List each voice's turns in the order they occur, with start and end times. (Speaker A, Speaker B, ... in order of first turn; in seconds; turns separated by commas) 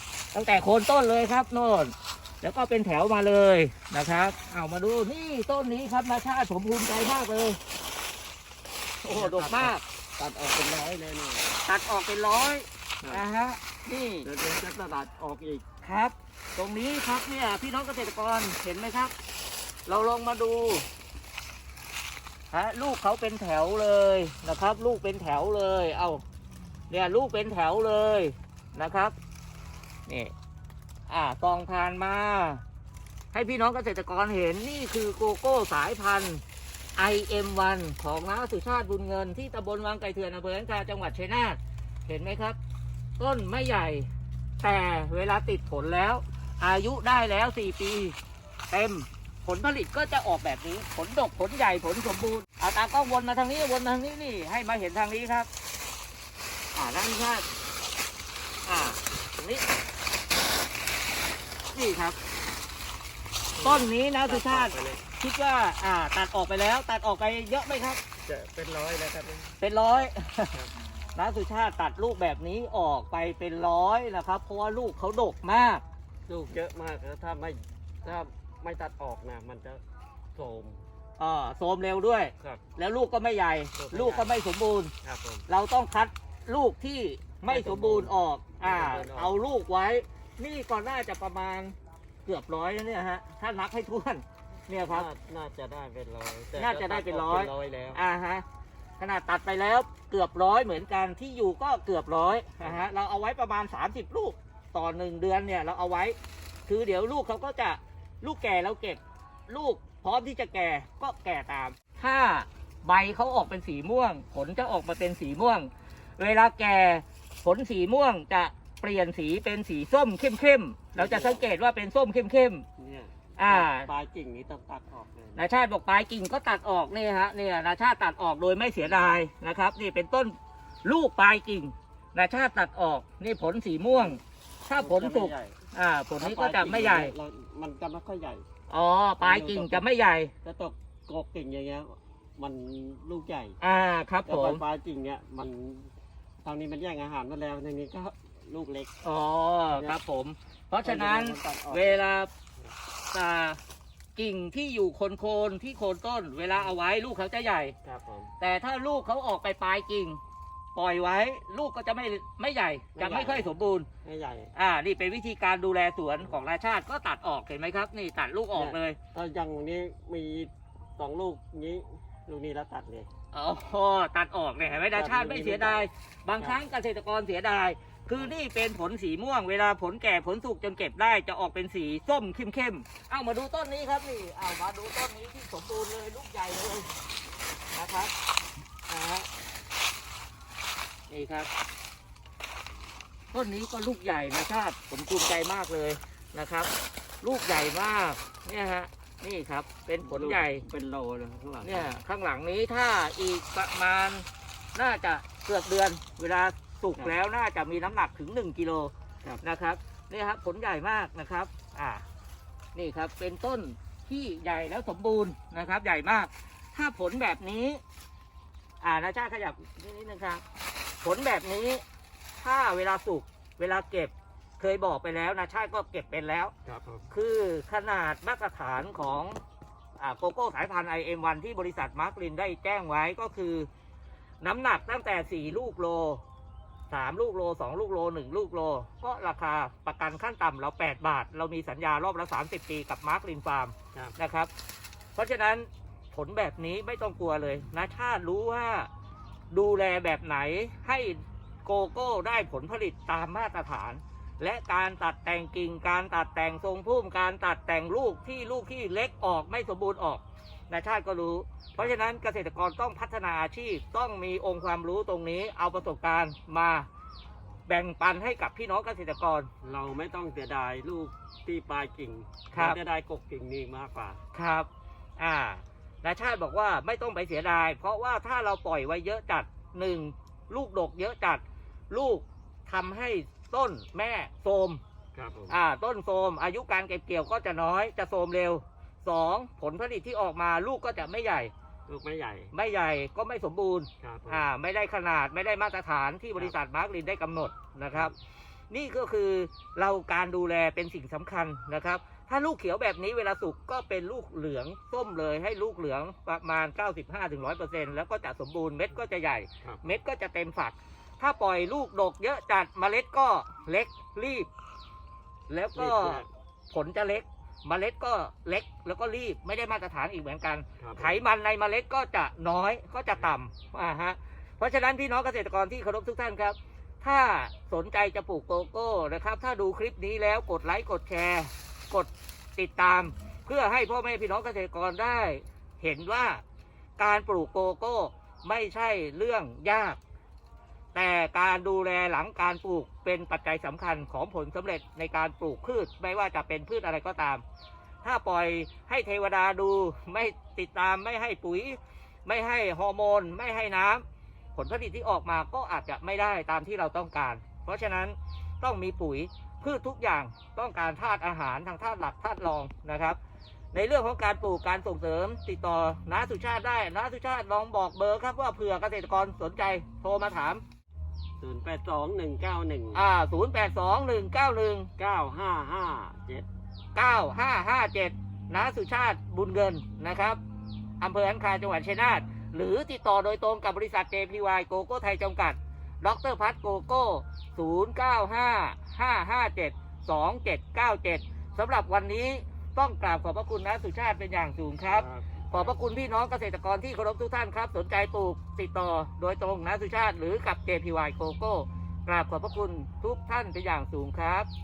Speaker A: 0.3-7.6, Speaker A: 9.0-9.8, Speaker B: 9.1-11.5, Speaker A: 11.7-14.3, Speaker B: 14.2-15.6, Speaker A: 15.8-19.1, Speaker A: 19.9-20.9, Speaker A: 22.5-26.2, Speaker A: 26.9-29.1, Speaker A: 30.1-30.3, Speaker A: 31.1-32.6, Speaker A: 33.3-36.4, Speaker A: 37.0-42.6, Speaker A: 43.2-44.1, Speaker A: 44.6-48.1, Speaker A: 48.7-55.5, Speaker A: 56.7-57.5, Speaker A: 58.6-59.6, Speaker A: 61.7-62.2, Speaker B: 63.5-65.0, Speaker A: 63.6-68.0, Speaker B: 68.2-69.6, Speaker A: 69.6-70.5, Speaker A: 71.1-75.8, Speaker B: 76.3-79.8, Speaker B: 80.3-80.8, Speaker A: 81.2-84.9, Speaker B: 83.8-84.3, Speaker B: 85.0-85.4, Speaker A: 85.5-95.1, Speaker B: 87.5-89.3, Speaker B: 94.8-98.0, Speaker A: 96.5-98.4, Speaker A: 99.0-106.2, Speaker B: 102.6-102.9, Speaker A: 106.7-122.6, Speaker B: 120.9-121.5, Speaker B: 122.8-125.4, Speaker A: 123.4-123.9, Speaker A: 125.3-137.1, Speaker B: 133.9-134.2, Speaker B: 134.8-135.6, Speaker B: 136.2-138.4, Speaker A: 138.7-140.3, Speaker B: 139.2-139.8, Speaker B: 140.4-143.6, Speaker A: 143.6-144.6, Speaker B: 144.2-145.9, Speaker B: 146.4-148.9, Speaker A: 149.0-152.3, Speaker B: 149.7-150.0, Speaker B: 150.8-152.1, Speaker A: 153.1-153.6, Speaker A: 154.2-157.8, Speaker B: 157.8-158.3, Speaker A: 158.4-160.2, Speaker A: 160.7-163.9, Speaker B: 163.0-163.5, Speaker B: 164.0-164.5, Speaker A: 164.5-169.0, Speaker B: 168.5-173.1, Speaker A: 173.3-186.9, Speaker B: 174.9-175.9, Speaker A: 187.7-188.1, Speaker A: 188.9-189.3, Speaker A: 191.1-191.5, Speaker A: 193.3-196.7, Speaker A: 197.2-200.6, Speaker B: 200.0-201.9, Speaker A: 201.6-212.0, Speaker A: 212.7-217.8, Speaker A: 218.8-220.4, Speaker A: 221.0-221.8, Speaker A: 222.4-226.5, Speaker B: 226.7-227.1, Speaker A: 227.1-229.4, Speaker A: 230.0-233.7, Speaker A: 234.4-236.2, Speaker A: 236.9-244.5, Speaker A: 245.1-248.9, Speaker A: 249.5-266.9, Speaker A: 267.7-269.5, Speaker B: 269.6-274.2, Speaker A: 272.5-272.8, Speaker A: 274.3-274.7, Speaker A: 275.2-284.8, Speaker B: 285.1-285.6, Speaker A: 285.5-291.5, Speaker B: 291.9-292.5, Speaker A: 292.5-298.1, Speaker B: 294.0-294.4, Speaker A: 298.7-314.5, Speaker A: 315.5-336.4, Speaker B: 315.7-316.3, Speaker B: 320.8-321.2, Speaker A: 337.0-340.0, Speaker A: 340.9-347.4, Speaker A: 348.0-354.0, Speaker A: 354.5-363.2, Speaker A: 363.7-370.6, Speaker B: 371.4-373.0, Speaker A: 372.9-374.9, Speaker B: 375.0-376.5, Speaker A: 376.9-380.4, Speaker A: 381.0-404.5, Speaker B: 394.9-395.8